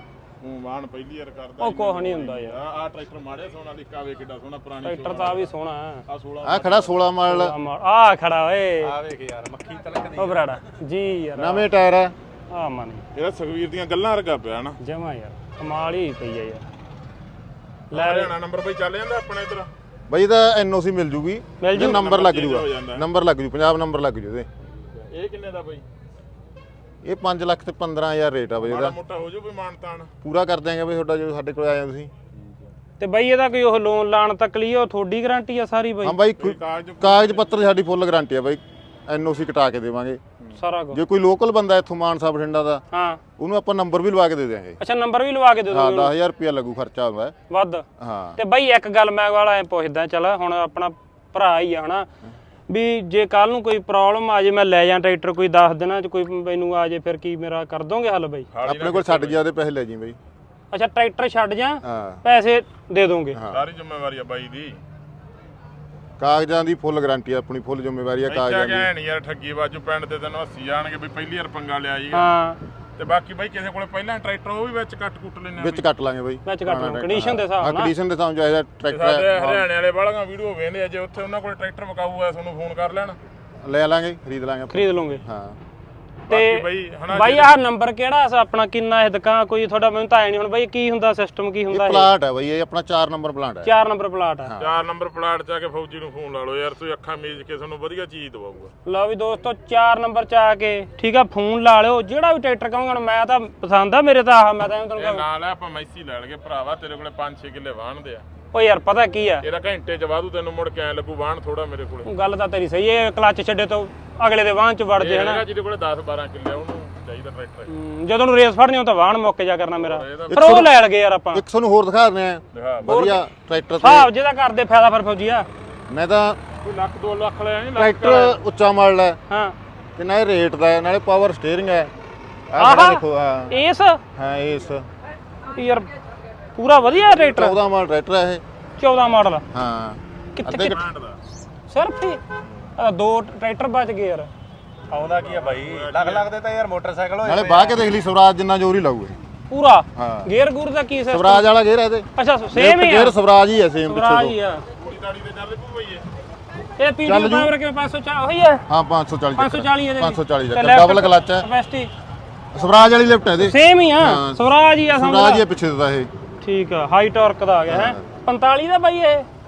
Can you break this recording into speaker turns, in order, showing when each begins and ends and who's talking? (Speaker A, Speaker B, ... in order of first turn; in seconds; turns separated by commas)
Speaker A: 0.4-5.5, Speaker B: 1.6-2.6, Speaker B: 4.8-6.0, Speaker A: 6.1-7.0, Speaker C: 6.4-7.5, Speaker B: 7.3-8.9, Speaker D: 8.8-10.4, Speaker B: 10.2-11.7, Speaker C: 11.3-12.1, Speaker B: 12.5-13.0, Speaker A: 13.2-14.8, Speaker B: 14.8-16.6, Speaker B: 17.9-18.3, Speaker A: 17.9-19.7, Speaker C: 20.1-24.5, Speaker B: 21.6-22.0, Speaker A: 21.8-23.1, Speaker A: 25.0-25.8, Speaker C: 27.0-29.0, Speaker A: 28.6-30.1, Speaker C: 30.2-32.1, Speaker B: 33.0-36.2, Speaker C: 36.0-40.2, Speaker A: 36.4-37.6, Speaker B: 40.6-41.0, Speaker C: 40.9-42.8, Speaker B: 42.9-43.2, Speaker C: 43.4-44.8, Speaker B: 44.8-46.1, Speaker C: 45.7-47.3, Speaker B: 47.5-47.8, Speaker C: 48.0-48.4, Speaker B: 48.4-52.1, Speaker B: 52.7-58.5, Speaker A: 58.5-59.4, Speaker C: 58.6-60.2, Speaker B: 60.7-63.4, Speaker C: 61.8-62.2, Speaker C: 63.3-63.6, Speaker A: 63.5-64.8, Speaker C: 66.2-68.9, Speaker A: 68.3-72.2, Speaker B: 72.1-72.6, Speaker A: 73.0-75.8, Speaker C: 75.6-79.7, Speaker B: 76.5-77.9, Speaker A: 78.9-83.2, Speaker C: 83.6-85.6, Speaker B: 84.7-85.2, Speaker A: 86.3-87.5, Speaker B: 86.3-92.1, Speaker C: 91.7-93.7, Speaker B: 93.6-94.5, Speaker C: 94.4-94.7, Speaker A: 94.6-98.7, Speaker B: 98.8-105.2, Speaker A: 105.0-108.2, Speaker B: 108.5-109.4, Speaker A: 109.4-112.1, Speaker B: 112.0-115.4, Speaker A: 115.0-117.7, Speaker B: 117.7-121.4, Speaker A: 119.8-120.6, Speaker C: 120.3-120.7, Speaker C: 121.3-124.1, Speaker A: 122.5-123.0, Speaker B: 122.9-123.2, Speaker B: 123.8-125.5, Speaker C: 125.9-126.4, Speaker A: 126.6-128.4, Speaker C: 127.8-129.2, Speaker B: 129.3-129.6, Speaker C: 130.0-131.9, Speaker C: 132.5-133.6, Speaker B: 132.6-134.0, Speaker C: 134.2-134.8, Speaker B: 135.5-135.9, Speaker B: 136.6-137.6, Speaker C: 137.2-138.4, Speaker B: 138.8-139.4, Speaker C: 139.5-140.8, Speaker B: 140.4-140.8, Speaker A: 140.6-141.2, Speaker B: 141.7-142.2, Speaker B: 142.8-144.3, Speaker D: 144.9-147.8, Speaker A: 145.0-146.3, Speaker C: 147.2-149.2, Speaker B: 149.5-151.5, Speaker C: 149.9-150.3, Speaker C: 151.1-154.4, Speaker B: 152.2-153.1, Speaker B: 153.9-154.6, Speaker A: 154.8-156.1, Speaker B: 156.8-158.6, Speaker C: 157.1-157.5, Speaker C: 158.7-161.5, Speaker B: 159.4-161.9, Speaker C: 162.5-166.1, Speaker B: 163.4-165.4, Speaker B: 166.4-169.2, Speaker C: 167.7-168.0